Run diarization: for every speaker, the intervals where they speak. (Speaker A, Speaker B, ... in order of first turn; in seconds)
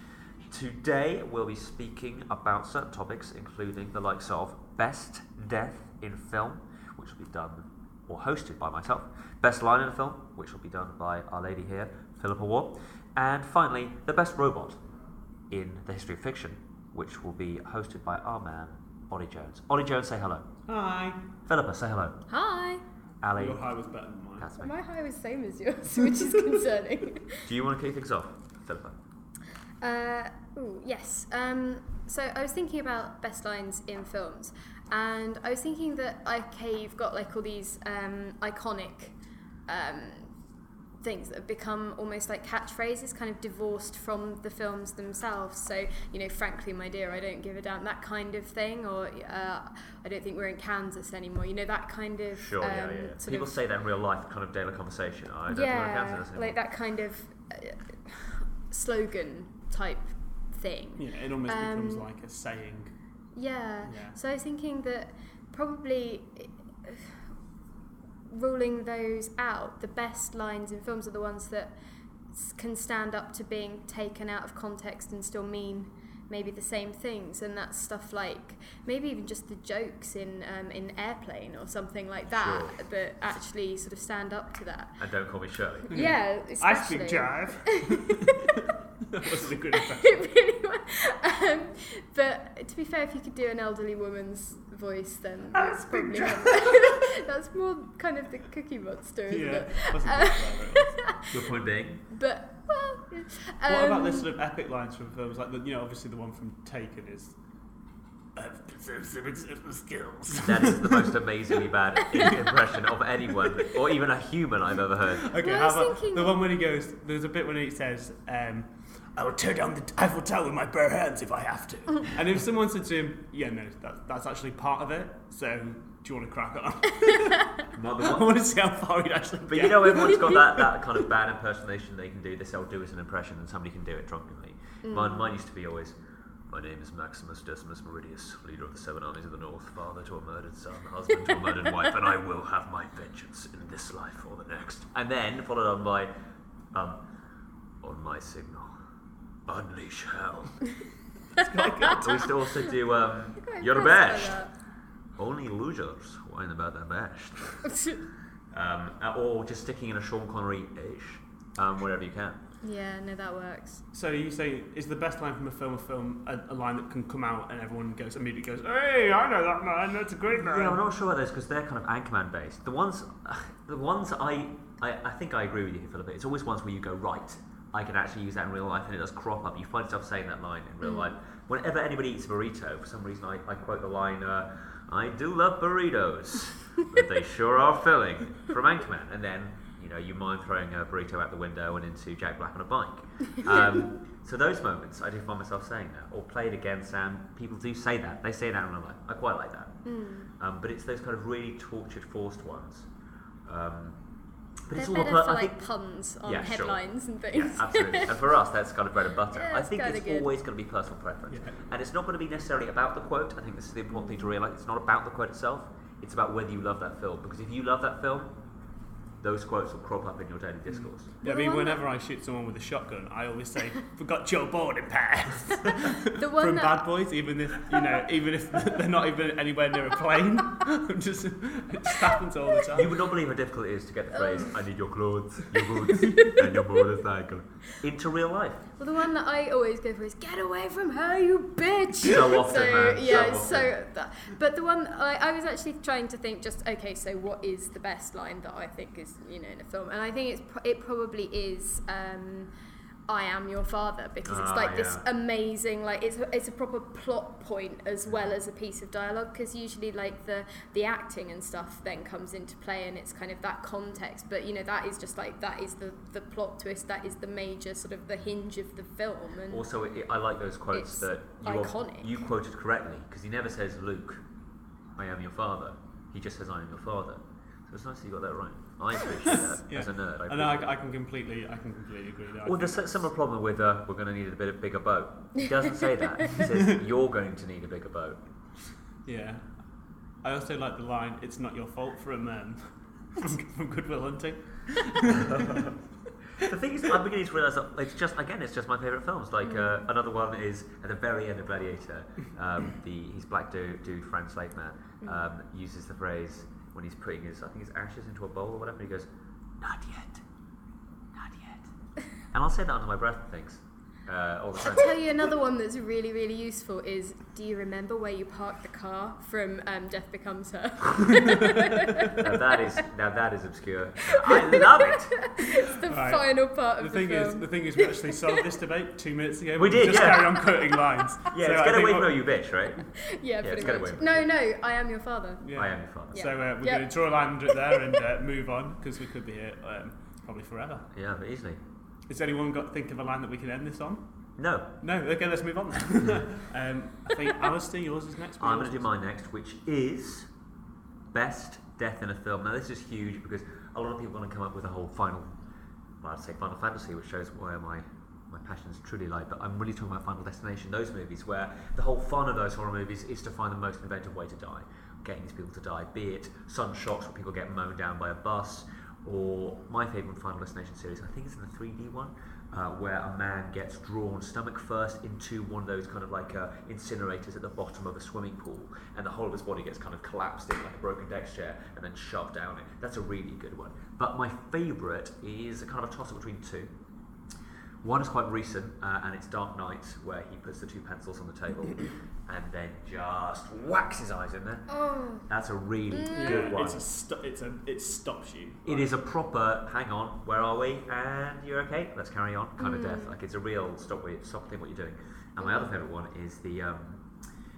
Speaker A: 0.5-14.8, 15.5-20.5, 21.5-22.2, 23.2-23.6, 24.4-24.7, 27.5-29.0, 52.4-56.6, 82.3-82.8, 85.0-85.9, 101.3-102.0, 110.3-115.3, 127.7-128.3, 129.5-136.0, 136.5-146.1, 146.7-147.0, 147.8-148.8, 149.5-150.6, 151.9-154.4, 155.2-157.7, 158.5-162.4, 170.3-199.8, 200.4-202.9, 203.4-204.0, 204.7-205.6, 206.2-218.3, 219.2-221.1, 232.7-238.7, 242.0-243.8, 254.2-255.1, 269.5-274.2, 275.0-280.8, 282.4-288.2, 295.0-295.8, 296.4-309.1, 309.6-310.2, 311.1-311.7, 312.3-315.0, 322.2-325.1, 329.6-330.5, 331.3-332.9, 333.4-334.2, 335.5-336.2, 340.9-341.6, 344.4-344.7, 348.4-350.3, 351.1-355.4, 356.0-386.7, 387.8-394.7, 395.2-396.8, 398.7-407.1
Speaker B: 20.7-21.2, 23.3-24.5, 61.0-62.9, 63.8-64.2, 85.9-90.3, 95.5-96.9, 99.3-101.0, 103.7-107.3, 108.4-111.2, 112.1-112.6, 113.4-113.8, 115.1-130.7, 151.3-152.3, 163.9-170.8, 211.3-211.6, 220.7-233.0, 279.2-282.9, 289.1-289.5, 290.2-295.8, 321.2-322.1, 325.8-332.2, 335.4-340.9, 342.1-344.0, 344.8-348.9, 396.1-398.9
Speaker C: 22.3-22.8, 24.6-27.5, 29.8-40.3, 41.0-53.5, 55.5-62.1, 63.4-67.2, 68.3-71.8, 72.3-85.0, 85.9-88.7, 89.2-101.2, 102.1-104.3, 115.3-116.4, 134.8-135.3, 153.4-154.5, 157.7-158.0, 162.6-163.8, 180.8-181.1, 199.8-200.3, 204.7-208.2, 209.3-210.3, 214.0-214.2, 221.2-221.8, 226.1-226.8, 227.7-228.0, 234.1-234.5, 235.7-236.8, 238.8-252.5, 253.1-269.7, 270.7-272.2, 299.4-299.8, 314.6-322.8, 324.1-328.4, 333.0-335.4, 336.1-336.9, 337.5-337.8, 394.7-395.3, 395.9-396.5, 402.6-403.1, 405.4-405.7